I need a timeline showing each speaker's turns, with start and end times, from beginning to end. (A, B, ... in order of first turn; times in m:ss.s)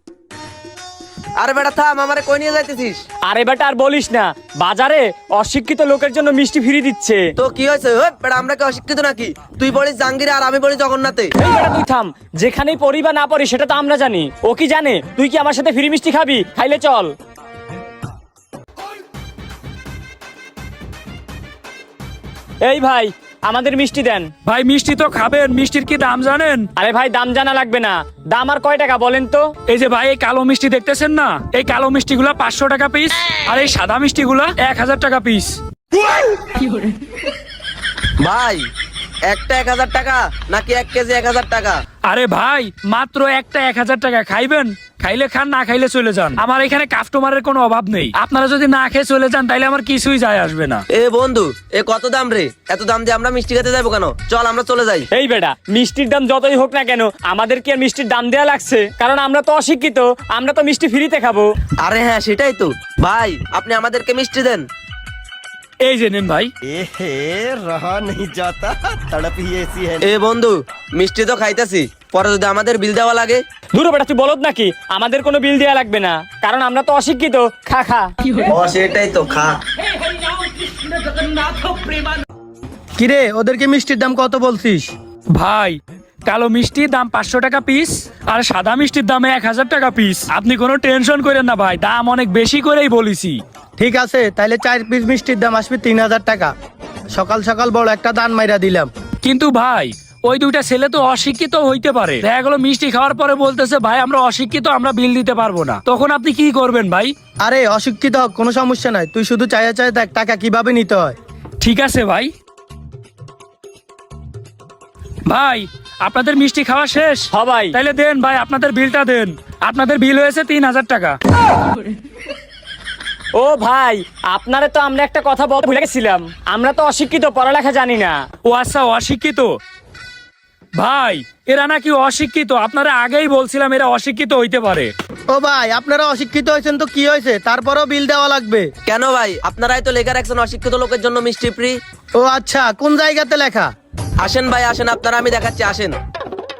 0:01.4-0:03.0 A
0:03.3-0:07.3 B
0:07.4-0:11.3 A
0:11.4-0:17.1 B
0:22.6-0:24.3 B
0:24.4-0:26.7 C
0:26.8-0:29.4 B
0:29.7-0:35.6 C
0:38.2-0:38.6 A
0:39.3-0:41.8 A
0:42.1-0:50.8 C
0:50.9-0:55.1 A
0:55.1-1:01.4 B
1:01.8-1:04.6 A
1:05.8-1:06.5 C
1:06.6-1:10.1 D
1:10.0-1:13.4 A
1:13.7-1:18.1 B
1:18.4-1:19.6 A
1:21.5-1:21.9 B
1:23.0-1:24.9 E
1:25.3-1:33.4 C
1:33.8-1:36.5 E
1:37.1-1:38.9 E
1:39.2-1:47.1 C
1:47.4-1:51.1 E
1:51.6-1:52.3 C
1:55.3-2:01.2 C
1:57.3-1:57.8 B
2:03.3-2:08.2 B
2:08.4-2:09.6 C
2:10.8-2:14.9 C
2:15.3-2:18.7 E
2:18.8-2:21.8 A
2:22.2-2:23.7 E
2:24.2-2:25.9 A